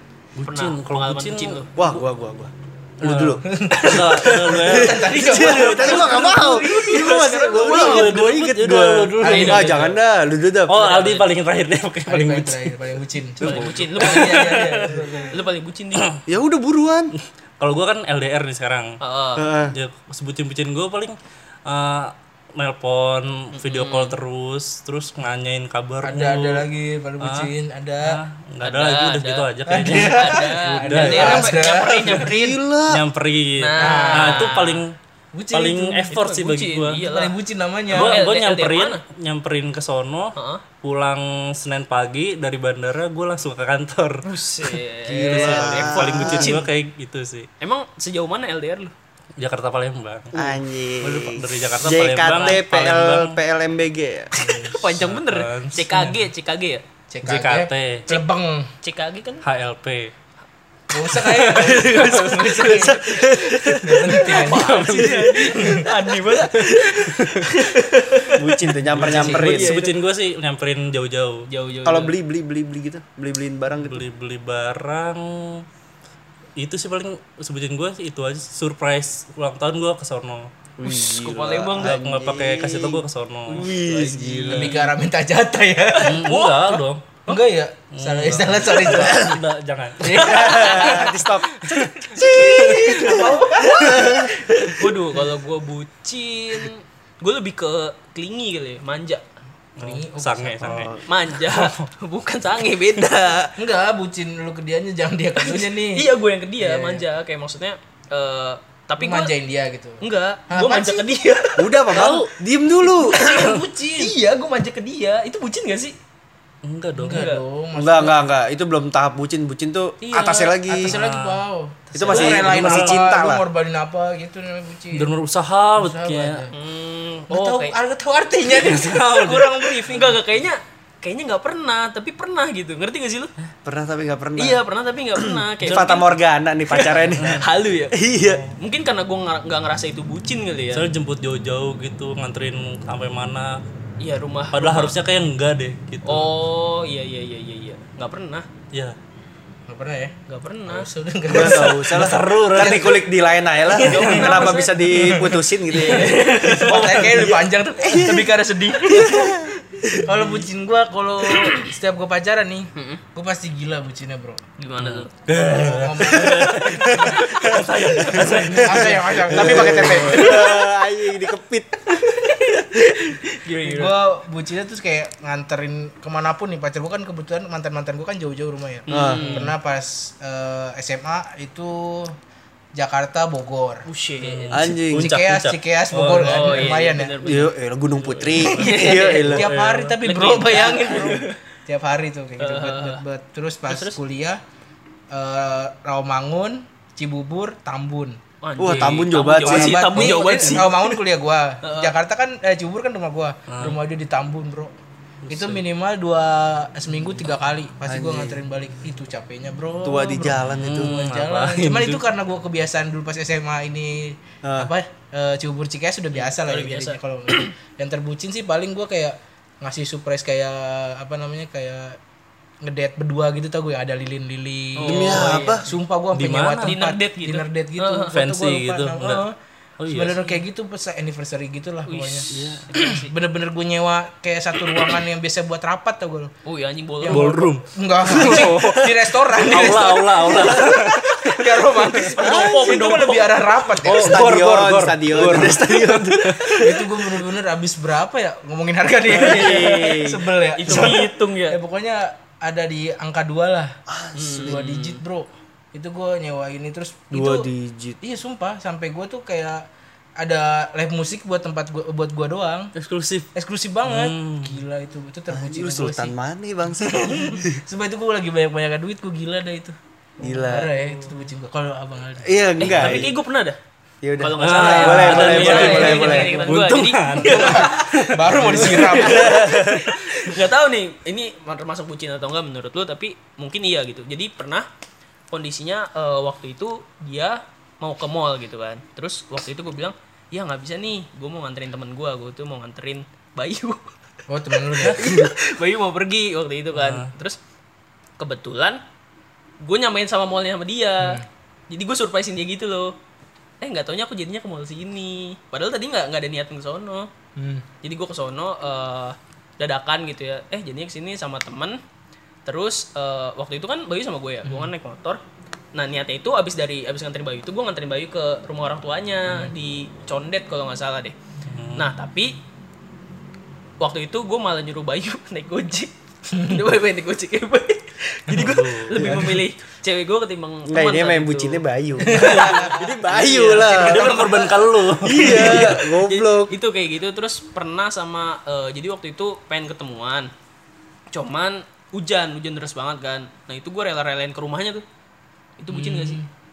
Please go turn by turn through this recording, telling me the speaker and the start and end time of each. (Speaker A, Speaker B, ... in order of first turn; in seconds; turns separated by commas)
Speaker A: 0.4-2.0, Speaker B: 0.5-1.7, Speaker C: 1.8-3.4, Speaker A: 3.0-6.4, Speaker D: 3.5-7.1, Speaker C: 4.6-11.1, Speaker B: 5.8-8.2, Speaker A: 7.5-9.9, Speaker D: 9.2-9.8, Speaker B: 9.3-9.9, Speaker A: 10.7-12.8, Speaker B: 10.8-11.3, Speaker D: 12.1-15.4, Speaker A: 13.4-15.2, Speaker B: 13.4-16.1, Speaker C: 16.3-17.1, Speaker A: 17.2-19.0, Speaker B: 19.0-19.5, Speaker C: 19.4-19.7, Speaker A: 19.7-26.7, Speaker B: 23.6-24.2, Speaker D: 26.0-28.2, Speaker A: 27.2-27.5, Speaker A: 28.0-32.3, Speaker B: 28.6-32.6, Speaker D: 29.7-32.3, Speaker C: 31.2-31.6, Speaker C: 32.2-33.0, Speaker A: 32.9-35.0, Speaker B: 33.6-34.8, Speaker D: 33.8-34.6, Speaker D: 35.3-36.1, Speaker A: 35.5-37.0, Speaker B: 36.0-37.4, Speaker D: 37.0-38.2, Speaker B: 37.9-39.0, Speaker A: 37.9-44.2, Speaker B: 40.4-40.6, Speaker B: 44.2-46.7, Speaker D: 45.1-45.5, Speaker C: 45.3-46.6, Speaker A: 45.3-47.5, Speaker B: 47.6-48.9, Speaker A: 49.4-53.4, Speaker C: 50.3-54.3, Speaker B: 52.2-52.6, Speaker D: 54.3-54.8, Speaker B: 54.7-56.8, Speaker A: 54.9-56.2, Speaker D: 57.1-58.7, Speaker A: 57.2-58.2, Speaker B: 58.8-59.4, Speaker A: 59.4-60.1, Speaker D: 60.9-63.2, Speaker A: 61.1-62.9, Speaker B: 61.6-62.9, Speaker C: 62.7-64.0, Speaker A: 63.5-65.8, Speaker D: 63.8-65.9, Speaker B: 64.2-68.4, Speaker A: 66.6-67.4, Speaker C: 68.3-69.7, Speaker A: 68.9-71.5, Speaker B: 69.0-70.0, Speaker D: 69.0-69.7, Speaker B: 71.5-72.2, Speaker C: 71.8-74.0, Speaker A: 73.8-75.7, Speaker A: 76.6-80.5, Speaker C: 80.8-84.7, Speaker B: 80.8-82.0, Speaker A: 81.7-83.7, Speaker B: 83.5-84.8, Speaker D: 84.5-86.3, Speaker B: 86.0-87.3, Speaker A: 86.0-87.2, Speaker D: 87.3-89.4, Speaker A: 88.0-91.0, Speaker C: 88.9-89.4, Speaker D: 90.0-91.1, Speaker C: 90.2-94.4, Speaker B: 90.4-91.1, Speaker A: 91.8-93.2, Speaker D: 92.2-95.2, Speaker B: 92.2-99.2, Speaker A: 99.8-101.8, Speaker D: 99.8-100.9, Speaker C: 100.7-101.0, Speaker B: 101.1-103.5, Speaker D: 103.6-106.1, Speaker B: 105.4-109.3, Speaker D: 106.6-107.0, Speaker D: 109.0-111.1, Speaker B: 110.0-112.3, Speaker C: 111.6-113.2, Speaker B: 113.1-116.0, Speaker D: 113.1-114.1, Speaker A: 116.6-117.3, Speaker D: 117.0-118.2, Speaker B: 117.1-117.4, Speaker C: 117.8-120.9, Speaker B: 120.0-120.6, Speaker D: 120.2-125.1, Speaker A: 120.9-121.4, Speaker C: 121.9-123.4, Speaker A: 122.1-123.0, Speaker A: 124.9-126.4, Speaker D: 125.8-126.5, Speaker B: 126.5-127.7, Speaker D: 127.3-130.1, Speaker A: 128.5-129.6, Speaker B: 129.1-133.3, Speaker C: 133.7-134.6, Speaker B: 134.4-136.1, Speaker C: 135.6-138.5, Speaker B: 136.7-138.0, Speaker A: 137.2-137.4, Speaker A: 138.2-138.5, Speaker B: 138.6-140.9, Speaker A: 140.7-143.6, Speaker B: 144.0-145.0, Speaker A: 144.5-146.3, Speaker B: 146.0-148.5, Speaker D: 149.7-150.2, Speaker B: 150.3-150.9, Speaker D: 150.7-153.0, Speaker C: 151.3-156.2, Speaker A: 151.3-153.0, Speaker B: 153.7-157.0, Speaker A: 153.8-154.3, Speaker D: 154.9-164.4, Speaker C: 157.1-158.3, Speaker C: 158.9-160.0, Speaker B: 161.3-161.7, Speaker B: 162.8-163.0, Speaker B: 164.6-165.1, Speaker A: 164.8-170.3, Speaker D: 165.5-166.8, Speaker B: 166.2-168.4, Speaker C: 166.9-167.6, Speaker D: 167.9-170.4, Speaker C: 168.2-172.0, Speaker B: 169.9-170.6, Speaker B: 171.9-174.0, Speaker D: 173.6-182.2, Speaker B: 178.9-179.5, Speaker C: 178.9-179.3, Speaker D: 182.8-183.9, Speaker B: 183.9-184.7, Speaker A: 184.2-186.9, Speaker C: 184.5-185.1, Speaker D: 184.9-187.2, Speaker B: 186.2-187.5, Speaker C: 187.2-189.5, Speaker A: 188.0-190.0, Speaker B: 188.5-189.4, Speaker D: 188.6-194.4, Speaker B: 190.0-191.4, Speaker B: 192.4-193.0, Speaker B: 193.7-194.0, Speaker D: 195.1-198.2, Speaker B: 198.4-200.9, Speaker C: 198.6-199.9, Speaker A: 198.7-198.9, Speaker D: 199.4-204.7, Speaker A: 199.9-200.7, Speaker B: 201.6-201.9, Speaker A: 203.5-203.8, Speaker A: 205.2-205.6, Speaker D: 205.3-222.0, Speaker C: 207.9-208.4, Speaker C: 209.8-210.9, Speaker A: 210.4-212.0, Speaker C: 214.4-214.7, Speaker B: 216.2-217.5, Speaker D: 222.6-229.3, Speaker B: 224.8-225.7, Speaker C: 224.9-225.7, Speaker A: 226.1-226.8, Speaker B: 226.7-228.2, Speaker A: 228.1-229.2, Speaker A: 229.8-230.2, Speaker D: 229.9-236.3, Speaker B: 231.9-233.1, Speaker A: 232.3-232.7, Speaker B: 236.5-237.3, Speaker D: 237.0-244.3, Speaker A: 237.1-242.4, Speaker C: 240.3-240.7, Speaker B: 242.1-243.5, Speaker A: 243.8-246.6, Speaker C: 243.8-246.8, Speaker D: 245.1-245.6, Speaker D: 246.6-253.8, Speaker B: 249.2-251.6, Speaker A: 249.2-249.5, Speaker C: 249.5-249.8, Speaker C: 250.7-251.0, Speaker C: 253.9-254.6, Speaker B: 254.2-255.0, Speaker D: 254.4-257.5, Speaker C: 257.1-258.0, Speaker D: 258.0-259.7, Speaker D: 260.2-262.7, Speaker A: 262.8-263.3, Speaker D: 263.3-266.1, Speaker A: 263.8-264.6, Speaker C: 265.3-267.5, Speaker D: 266.8-269.8, Speaker C: 270.2-270.8, Speaker D: 270.3-272.3, Speaker C: 272.2-273.1, Speaker B: 272.6-273.6, Speaker C: 274.0-276.6, Speaker B: 274.2-284.7, Speaker A: 274.4-280.3, Speaker D: 274.6-276.1, Speaker D: 277.3-279.5, Speaker C: 279.1-279.6, Speaker B: 285.3-293.9, Speaker D: 294.3-295.1, Speaker B: 294.8-297.4, Speaker A: 294.8-295.2, Speaker A: 296.7-297.1, Speaker B: 298.2-298.8, Speaker B: 299.6-302.9, Speaker D: 301.0-301.3, Speaker B: 303.6-307.1, Speaker D: 307.4-307.6, Speaker B: 307.8-311.8, Speaker B: 312.5-315.2, Speaker D: 314.4-314.7, Speaker B: 315.7-321.1, Speaker A: 321.5-321.9, Speaker B: 321.8-322.4, Speaker B: 323.8-334.4, Speaker D: 326.3-326.6, Speaker A: 328.3-329.2, Speaker D: 329.0-329.4, Speaker C: 330.7-334.2, Speaker D: 332.0-332.6, Speaker A: 333.5-335.8, Speaker D: 333.9-334.5, Speaker C: 335.0-336.5, Speaker D: 335.1-335.7, Speaker B: 335.2-340.3, Speaker B: 341.1-344.8, Speaker B: 345.6-346.2, Speaker D: 345.7-346.3